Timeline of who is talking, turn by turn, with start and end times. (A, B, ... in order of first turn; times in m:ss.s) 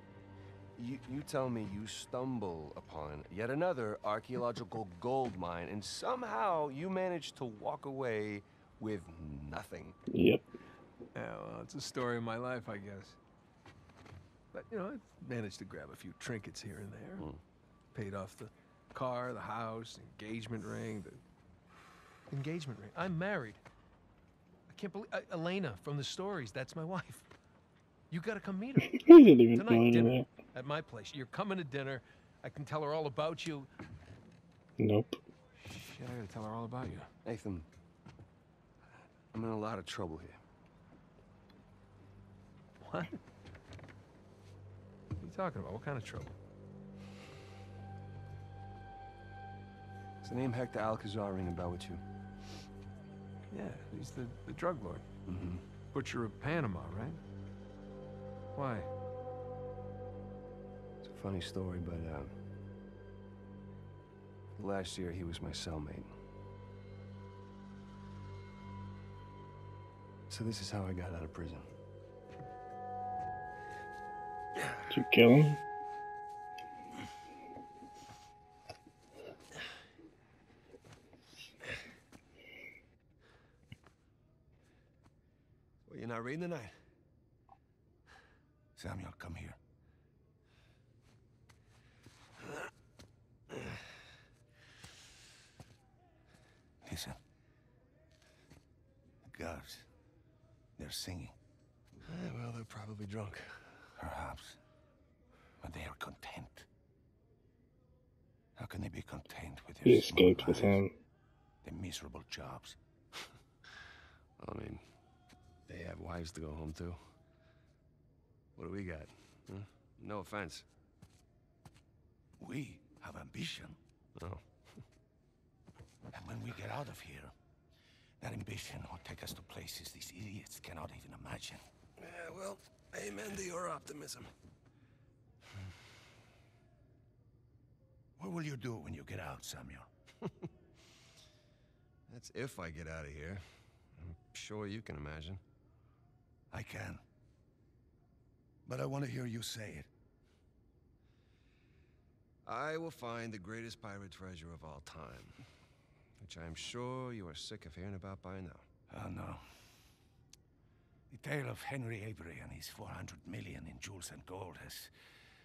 0:00.8-0:10.0 A
0:10.1-0:10.4 B
0:11.1-0:13.2 C
0:14.5-0:17.2 C
0:17.9-0:21.2 C
0:22.3-0:23.6 C
0:24.7-0:27.3 C
0:28.1-0:29.0 C
0:28.8-0:30.3 B
0:29.5-0:33.7 C
0:34.8-0:35.2 B
0:35.6-0:37.1 C
0:37.2-0:37.7 A
0:39.3-0:40.4 A
0:42.8-0:43.2 C
0:45.2-0:46.3 C
0:50.2-0:52.0 A
0:53.5-0:55.0 C
0:55.3-0:55.6 A
0:55.9-0:57.2 C
0:58.5-0:58.9 C
1:01.0-1:02.3 A
1:04.6-1:06.1 A
1:10.3-1:11.7 A
1:14.9-1:15.6 B
1:25.9-1:26.8 A
1:28.8-1:29.6 D
1:36.8-1:37.2 D
1:39.2-1:39.9 D
1:40.8-1:41.3 D
1:42.0-1:43.8 A
1:44.0-1:44.6 D
1:45.6-1:46.7 D
1:48.6-1:50.8 D
1:49.8-1:50.9 B
1:51.6-1:52.8 D
1:54.4-1:54.8 A
1:55.7-1:57.0 A
1:58.6-2:00.6 A
2:02.4-2:03.8 D
2:04.2-2:04.4 A
2:06.1-2:07.3 D
2:08.2-2:11.6 D
2:12.0-2:14.3 A
2:18.2-2:19.9 D
2:22.1-2:23.4 A
2:24.0-2:25.4 A
2:26.5-2:27.0 D
2:28.6-2:29.9 D
2:32.4-2:35.4 A
2:36.2-2:38.7 A
2:38.9-2:39.4 D
2:41.1-2:44.9 D